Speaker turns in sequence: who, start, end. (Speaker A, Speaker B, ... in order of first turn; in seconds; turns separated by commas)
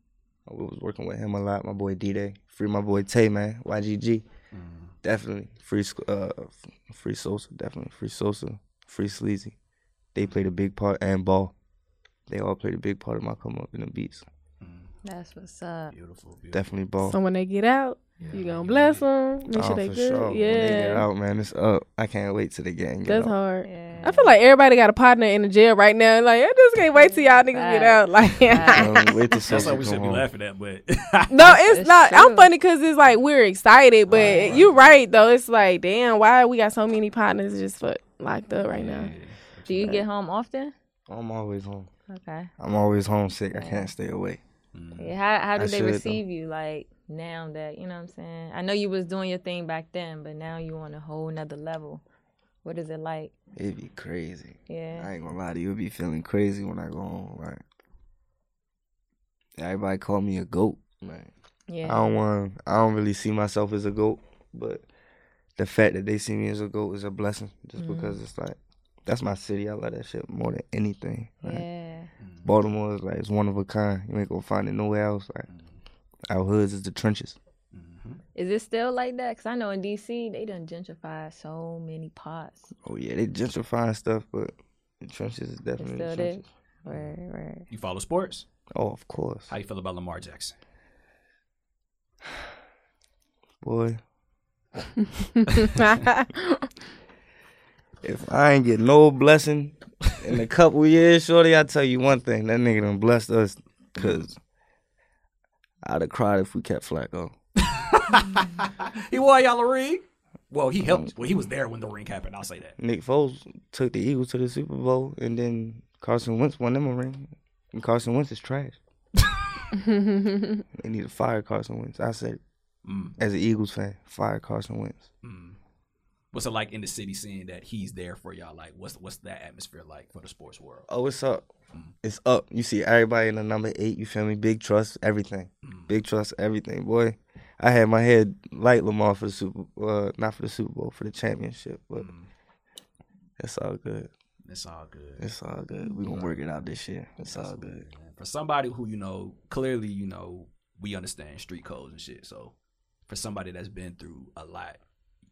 Speaker A: 0.5-4.2, Speaker B: 4.5-4.9, Speaker A: 5.0-9.6, Speaker A: 10.1-11.5, Speaker A: 12.3-14.2, Speaker B: 14.6-14.9, Speaker C: 15.0-15.9, Speaker B: 15.9-16.7, Speaker A: 16.5-17.2, Speaker D: 17.0-21.1, Speaker B: 18.2-19.1, Speaker A: 19.5-23.3, Speaker D: 23.0-29.2, Speaker C: 23.6-24.4, Speaker B: 23.9-24.2, Speaker C: 26.8-29.0, Speaker A: 28.6-30.3, Speaker B: 29.4-31.7, Speaker D: 31.3-39.1, Speaker C: 31.5-32.5, Speaker B: 34.1-34.7, Speaker C: 34.1-34.7, Speaker A: 34.2-34.5, Speaker B: 38.7-40.0, Speaker C: 39.7-40.7, Speaker A: 41.1-41.9, Speaker C: 42.1-42.5, Speaker A: 42.6-44.4, Speaker C: 43.5-43.9, Speaker B: 44.7-45.1, Speaker C: 45.0-52.0, Speaker A: 45.5-46.2, Speaker C: 52.6-53.3, Speaker A: 53.5-57.6, Speaker C: 54.7-55.1, Speaker A: 59.6-61.3, Speaker C: 61.7-62.0, Speaker A: 61.8-64.8, Speaker A: 65.6-71.6, Speaker C: 67.8-68.2, Speaker C: 71.4-72.1, Speaker B: 72.2-72.5, Speaker A: 72.4-75.5, Speaker B: 75.5-75.8, Speaker A: 76.3-77.4, Speaker B: 77.7-78.2, Speaker C: 78.3-82.7, Speaker A: 82.8-86.5, Speaker C: 85.8-87.7, Speaker B: 86.8-87.1, Speaker B: 87.7-88.5, Speaker A: 88.7-89.5, Speaker B: 89.5-90.5, Speaker A: 93.6-94.0, Speaker B: 95.5-96.0, Speaker D: 95.6-96.7, Speaker A: 98.0-104.4, Speaker B: 104.0-104.3, Speaker A: 105.8-107.3, Speaker B: 107.7-112.8, Speaker A: 110.8-111.2, Speaker A: 112.8-118.8, Speaker D: 119.7-120.6, Speaker A: 120.7-122.4, Speaker B: 122.8-123.2, Speaker A: 123.2-125.1, Speaker B: 125.2-125.6, Speaker B: 126.3-130.9, Speaker A: 130.9-131.4, Speaker A: 132.0-142.1, Speaker B: 135.6-135.9, Speaker B: 142.0-142.3, Speaker A: 143.4-144.1, Speaker B: 144.4-145.3, Speaker A: 145.2-147.8, Speaker B: 146.0-146.4, Speaker B: 147.2-152.5, Speaker B: 153.1-154.8